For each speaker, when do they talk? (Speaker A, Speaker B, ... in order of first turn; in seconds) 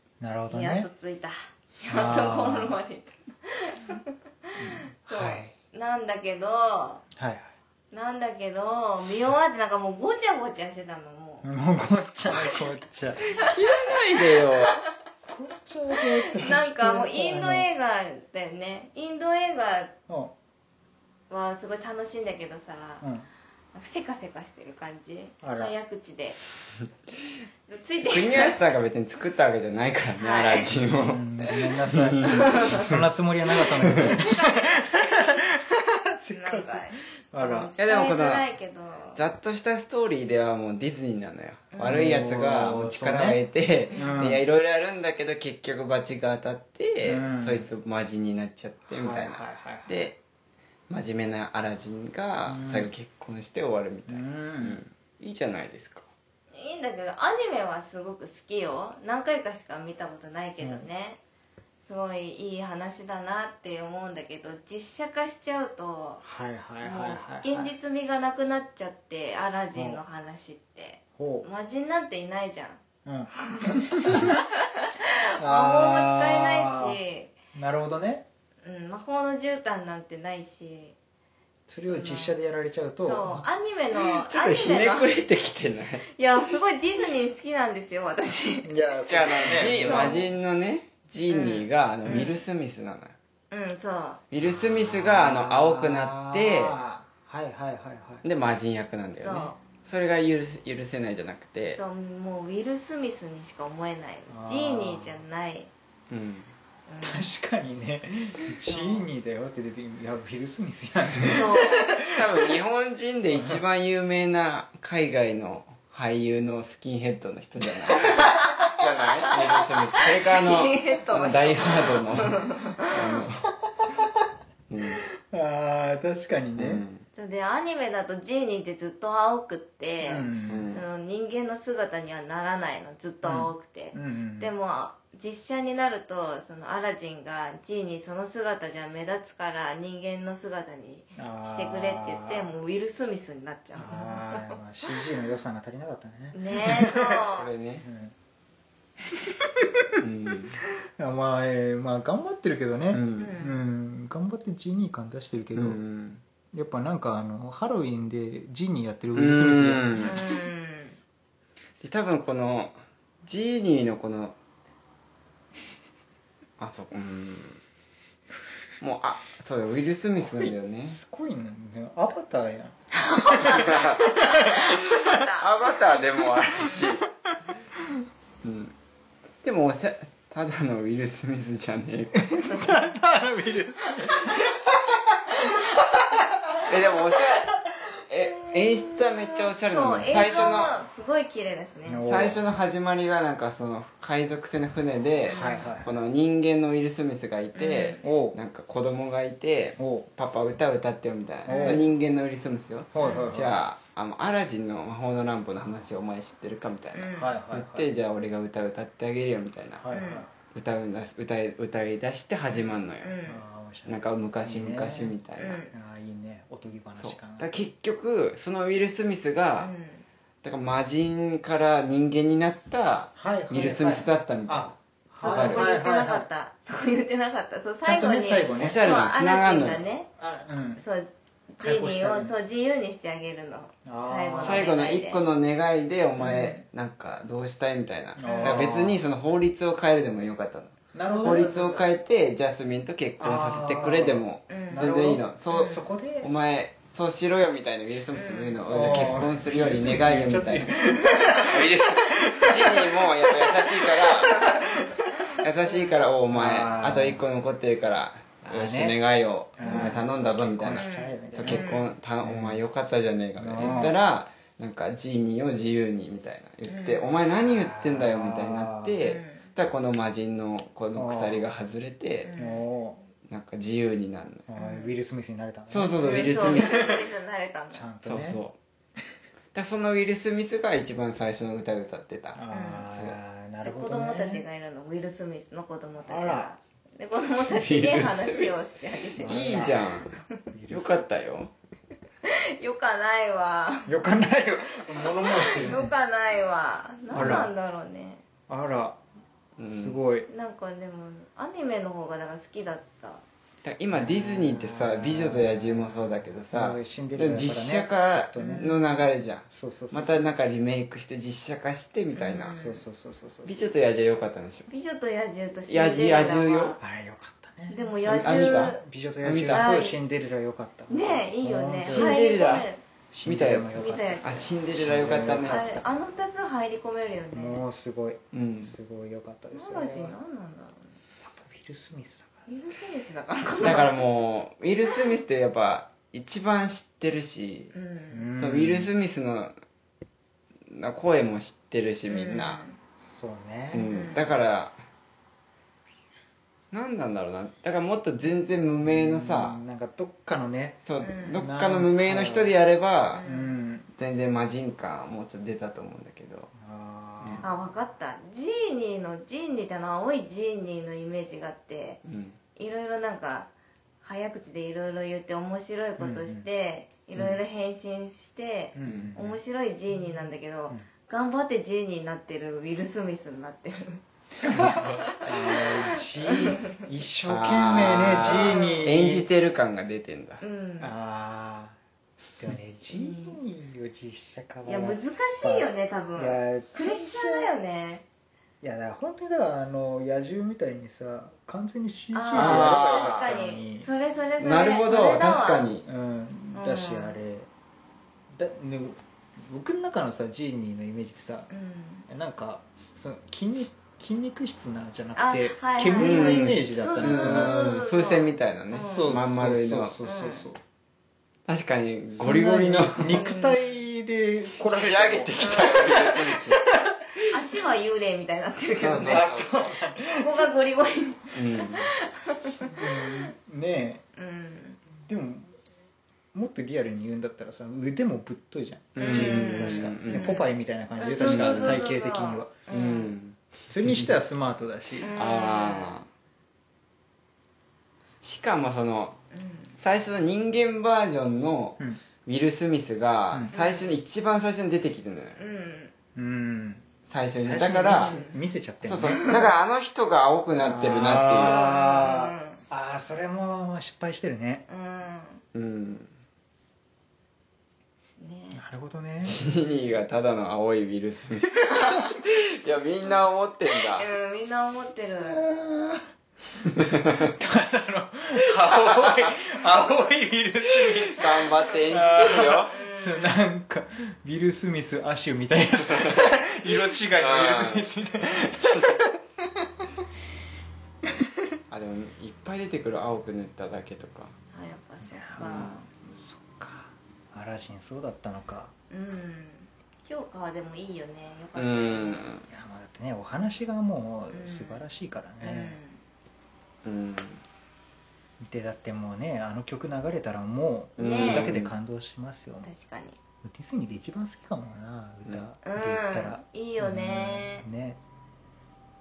Speaker A: 0.2-0.9, 1.9-2.8, 4.6-5.5, 7.2-7.5, 11.4-13.2, 15.3-17.7, 20.1-20.3, 23.0-23.3, 25.4-25.7, 30.9-37.7, 41.8-43.4, 43.9-44.4, 47.0-47.7, 48.9-49.9, 52.5-52.9, 54.1-54.8, 66.2-67.7, 69.7-70.0, 71.2-71.5, 73.0-74.3, 75.4-77.0, 77.5-78.2, 81.7-83.5, 88.6-90.2, 94.4-98.2, 104.3-105.2, 107.0-112.3, 125.2-126.8, 130.0-130.6, 133.2-134.5, 141.2-142.5, 143.8-147.3, 147.8-148.1, 151.0-155.8, 156.5-160.1, 169.9-175.1, 182.3-187.7, 188.2-189.1, 191.8-192.4, 195.3-195.9, 198.0-198.4, 199.8-200.1, 201.4-201.8, 202.9-203.6, 207.2-207.9, 209.8-210.3, 213.2-215.2, 215.7-217.6, 223.2-226.2, 227.8-228.8, 230.2-230.8, 231.6-232.3, 233.8-234.7, 238.2-239.0, 240.9-241.8, 243.2-246.3, 248.7-255.1, 256.3-257.2, 258.4-258.9, 259.6-261.6, 262.2-262.6, 263.4-263.9, 267.3-269.0, 270.9-271.4, 272.4-273.0, 274.5-277.0, 277.7-278.4, 282.3-284.4, 286.0-286.5, 289.2-289.8, 290.5-291.0, 293.9-295.9, 297.1-297.5, 298.5-299.0, 299.6-300.3, 303.9-308.7, 309.5-310.2, 312.5-313.6, 316.8-322.2, 323.1-325.6, 327.3-330.2, 331.2-332.5, 338.1-338.9, 343.0-343.9, 348.9-352.5, 353.2-353.9, 356.6-357.5, 366.0-366.4, 368.7-369.4, 369.9-370.9, 374.4-379.3, 380.8-381.8, 382.4-387.5, 388.6-393.9, 395.8-397.5, 398.3-401.5, 402.1-407.6, 408.7-410.6, 412.2-417.4, 419.0-420.4, 422.6-424.0, 425.0-425.6, 426.3-432.5, 433.7-435.1, 446.1-446.8, 447.4-449.3, 450.6-454.6, 458.5-459.4, 465.2-466.0, 466.8-479.2, 485.0-488.7, 492.5-495.8, 498.4-502.7, 503.4-508.0
Speaker B: 0.5-7.0, 7.9-11.5, 12.2-12.7, 13.3-14.8, 15.9-19.9, 21.3-23.1, 23.7-26.4, 27.7-28.6, 30.2-30.7, 32.3-32.9, 33.9-35.2, 36.3-39.2, 41.7-42.1, 43.9-44.4, 56.5-61.2, 61.9-66.2, 66.8-72.8, 73.3-77.3, 78.6-80.9, 81.8-82.3, 83.0-85.1, 86.2-88.7, 89.3-90.3, 91.3-92.4, 93.5-94.2, 99.2-99.6, 101.7-105.7, 106.9-107.3, 108.7-109.1, 111.2-111.9, 118.0-118.5, 119.5-123.0, 127.1-144.9, 146.3-147.5, 153.2-153.6, 160.0-161.0, 173.0-176.0, 176.5-176.8, 189.7-192.1, 195.2-195.7, 197.6-198.0, 201.5-201.8, 203.0-203.3, 206.9-207.4, 209.9-210.2, 213.0-213.4, 215.4-215.7, 219.6-220.0, 225.2-230.1, 230.8-235.2, 236.2-236.6, 238.2-238.7, 241.1-241.4, 244.5-244.9, 245.5-245.8, 248.1-249.1, 251.0-251.4, 255.6-256.0, 259.6-260.0, 260.7-261.9, 263.6-263.9, 266.7-267.0, 269.0-269.5, 272.2-272.6, 274.5-274.9, 275.9-277.9, 282.5-282.9, 283.6-290.4, 292.2-294.0, 295.0-298.2, 300.3-303.2, 308.4-308.8, 312.1-312.8, 314.7-316.8, 317.7-318.8, 319.5-320.0, 320.9-322.8, 323.7-324.6, 325.2-327.6, 329.5-331.0, 332.5-334.0, 337.7-338.3, 342.1-342.8, 343.9-344.3, 351.0-351.4, 353.1-353.5, 357.4-362.0, 362.6-363.5, 364.0-374.0, 375.1-376.8, 378.2-378.9, 380.4-380.9, 382.9-383.4, 384.6-388.0, 392.1-395.7, 396.5-397.2, 401.5-402.1, 405.1-409.1, 410.0-410.5, 413.1-413.7, 415.4-416.1, 417.3-423.3, 424.2-424.8, 429.0-433.1, 435.0-436.0, 439.3-439.8, 443.5-443.9, 445.4-445.9, 447.7-448.4, 449.1-449.5, 451.3-452.6, 454.7-455.4, 458.2-458.6, 461.6-462.1, 463.7-465.4, 472.2-473.4, 484.5-485.9, 488.9-492.2, 494.3-494.8, 495.4-496.0, 501.0-501.5, 502.6-503.2, 505.6-507.6
Speaker C: 13.2-14.8, 28.0-31.2, 31.9-32.8, 37.8-38.4, 39.1-50.2, 50.9-56.1, 84.1-86.1, 89.1-93.1, 94.3-96.8, 98.2-101.8, 106.1-106.5, 112.1-123.5, 124.7-125.0, 126.6-127.0, 130.5-130.8, 147.3-147.8, 150.0-150.6, 152.9-153.3, 155.5-156.2, 159.1-160.2, 161.8-164.3, 166.6-167.6, 168.8-171.0, 173.4-174.0, 175.4-177.1, 178.4-178.7, 179.4-182.6, 186.7-187.5, 188.1-190.8, 192.0-209.8, 210.5-213.2, 213.8-215.6, 217.0-219.7, 220.4-225.6, 228.6-229.8, 234.4-250.8, 251.4-254.4, 255.4-272.3, 273.3-274.5, 275.7-277.0, 278.0-278.6, 279.5-283.2, 287.5-288.6, 289.2-291.5, 299.6-300.0, 303.6-312.6, 313.4-314.7, 315.7-316.8, 318.1-319.8, 321.8-322.7, 323.2-325.8, 328.3-328.7, 333.6-337.7, 338.4-339.5, 340.7-342.6, 343.7-344.8, 346.7-349.6, 350.9-353.2, 354.0-356.5, 362.0-362.4, 368.8-369.1, 374.4-375.0, 377.2-380.4, 392.3-393.3, 394.4-395.8, 405.9-410.0, 411.5-413.2, 414.6-416.6, 418.8-419.7, 421.3-421.9, 428.9-430.3, 431.2-431.8, 432.7-434.1, 435.1-436.1, 438.2-439.2, 439.8-445.4, 447.1-448.1, 448.8-451.7, 455.5-456.1, 459.2-464.1, 466.6-467.3, 469.0-469.3, 470.8-472.8, 475.8-476.3, 477.1-477.9, 478.4-479.0, 481.7-484.3, 485.4-485.8, 491.6-492.5, 496.8-497.4, 501.0-501.7